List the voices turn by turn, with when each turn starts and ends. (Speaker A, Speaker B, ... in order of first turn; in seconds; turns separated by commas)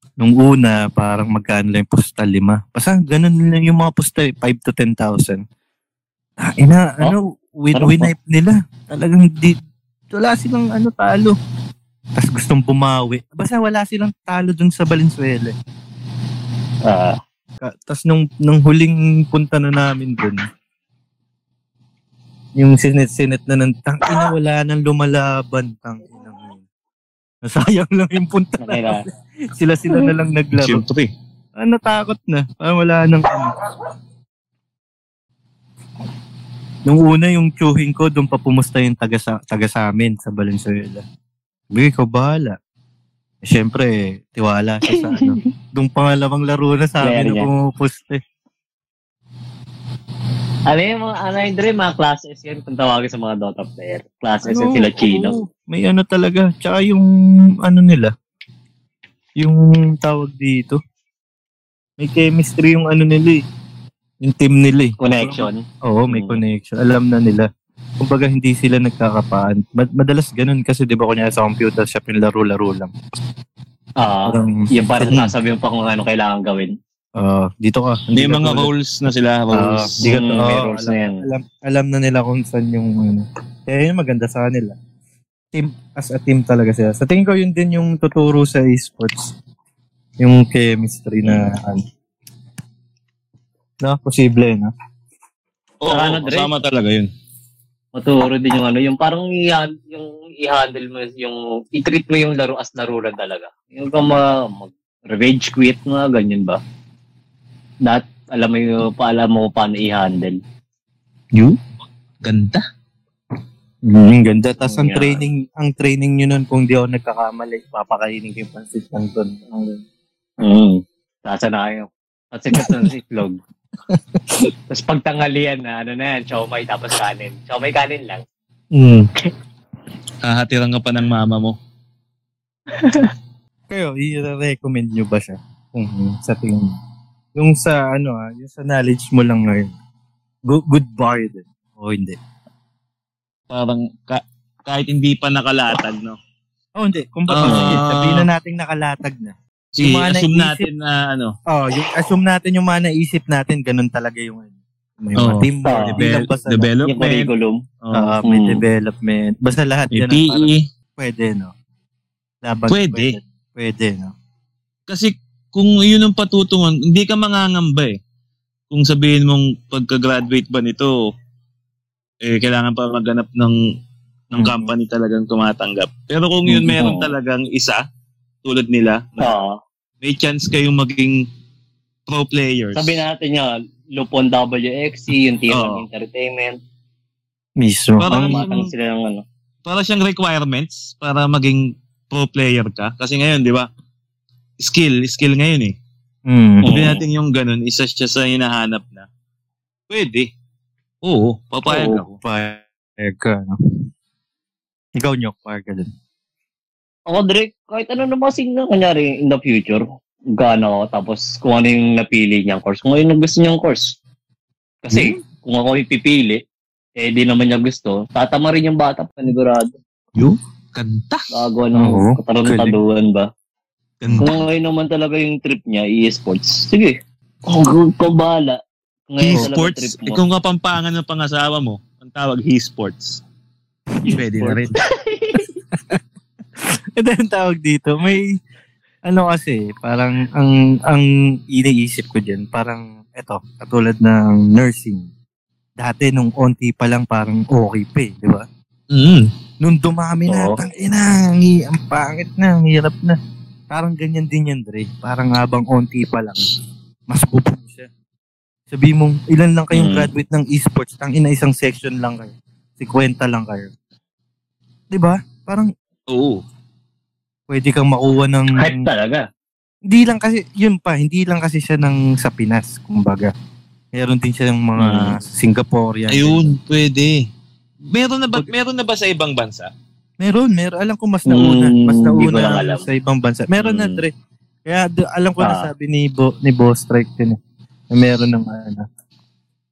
Speaker A: 0.2-5.4, Speaker A: 6.4-9.6, Speaker B: 7.7-8.1, Speaker A: 10.1-11.4, Speaker A: 12.2-15.5, Speaker B: 16.9-17.2, Speaker A: 17.6-20.4, Speaker A: 22.6-26.6, Speaker A: 27.4-30.8, Speaker B: 28.6-29.1, Speaker C: 30.6-31.1, Speaker A: 31.6-33.5, Speaker A: 36.9-41.0, Speaker A: 41.7-42.6, Speaker A: 43.4-48.2, Speaker B: 44.9-45.4, Speaker B: 47.0-47.5, Speaker B: 50.7-55.4, Speaker A: 54.5-57.1, Speaker A: 57.6-58.1, Speaker A: 59.4-60.8, Speaker A: 62.0-63.4, Speaker A: 64.2-67.5, Speaker B: 65.0-66.4, Speaker A: 68.0-72.9, Speaker B: 74.0-76.7, Speaker A: 74.3-75.3, Speaker A: 77.2-78.7, Speaker C: 78.1-80.0, Speaker A: 79.5-84.8, Speaker B: 80.0-81.2, Speaker A: 85.5-89.3, Speaker A: 90.2-91.8, Speaker A: 93.8-94.7, Speaker C: 95.8-97.1, Speaker B: 95.9-96.5, Speaker B: 98.0-106.6, Speaker B: 107.8-110.4, Speaker C: 112.2-112.6, Speaker A: 113.8-119.8, Speaker B: 114.6-115.2, Speaker B: 120.4-123.4, Speaker A: 122.5-122.9, Speaker A: 123.9-124.5, Speaker B: 124.7-128.2, Speaker A: 128.7-129.1, Speaker C: 130.2-131.6, Speaker A: 133.7-136.7, Speaker A: 137.3-139.7, Speaker A: 140.5-142.2, Speaker C: 143.5-146.2, Speaker A: 146.8-150.7, Speaker C: 147.3-148.3, Speaker B: 147.4-147.8, Speaker C: 149.8-151.4, Speaker A: 151.5-156.7, Speaker C: 155.2-157.3, Speaker B: 155.7-156.0, Speaker B: 156.8-158.6, Speaker A: 157.9-161.5, Speaker C: 159.9-160.6, Speaker A: 162.4-164.1, Speaker C: 162.7-163.2, Speaker C: 164.9-168.0, Speaker C: 168.7-170.9, Speaker C: 172.2-173.6, Speaker C: 174.3-177.8, Speaker A: 174.3-174.7, Speaker A: 176.5-176.8, Speaker B: 176.8-177.1, Speaker C: 178.4-179.3, Speaker B: 179.2-179.6, Speaker C: 180.0-181.2, Speaker C: 182.1-183.0, Speaker B: 182.8-186.6, Speaker C: 185.5-185.8, Speaker A: 187.6-188.4, Speaker C: 188.0-188.7, Speaker B: 188.1-189.2, Speaker C: 189.7-193.7, Speaker C: 194.6-195.8, Speaker A: 196.3-196.8, Speaker B: 196.6-197.0, Speaker C: 196.7-199.1, Speaker C: 199.9-200.3, Speaker C: 201.0-202.2, Speaker B: 201.7-202.0, Speaker A: 202.2-203.6, Speaker A: 205.0-205.9, Speaker B: 207.1-209.8, Speaker B: 210.3-214.0, Speaker B: 214.8-216.4, Speaker B: 217.0-219.8, Speaker C: 220.7-221.3, Speaker B: 221.3-223.3, Speaker A: 221.8-222.8, Speaker C: 224.0-224.4, Speaker A: 224.0-224.3, Speaker B: 224.2-228.6, Speaker B: 229.1-230.2, Speaker C: 229.2-233.2, Speaker B: 234.1-235.5, Speaker C: 234.1-234.8, Speaker A: 235.7-236.0, Speaker A: 236.6-238.4, Speaker A: 239.1-245.1, Speaker A: 245.8-248.5, Speaker C: 248.9-249.3, Speaker A: 249.6-253.2, Speaker B: 250.3-250.6, Speaker A: 253.7-256.5, Speaker A: 257.1-257.9, Speaker A: 258.7-263.7, Speaker B: 259.7-260.1, Speaker A: 264.9-265.7, Speaker C: 266.1-266.4, Speaker A: 267.5-268.9, Speaker B: 268.6-269.2, Speaker A: 269.9-273.3, Speaker A: 273.9-276.5, Speaker B: 274.8-275.2, Speaker C: 276.1-277.3, Speaker C: 277.9-279.7, Speaker A: 280.2-284.1, Speaker B: 281.3-282.9, Speaker B: 283.6-284.0, Speaker A: 284.6-287.4, Speaker B: 285.4-285.7, Speaker A: 287.9-288.9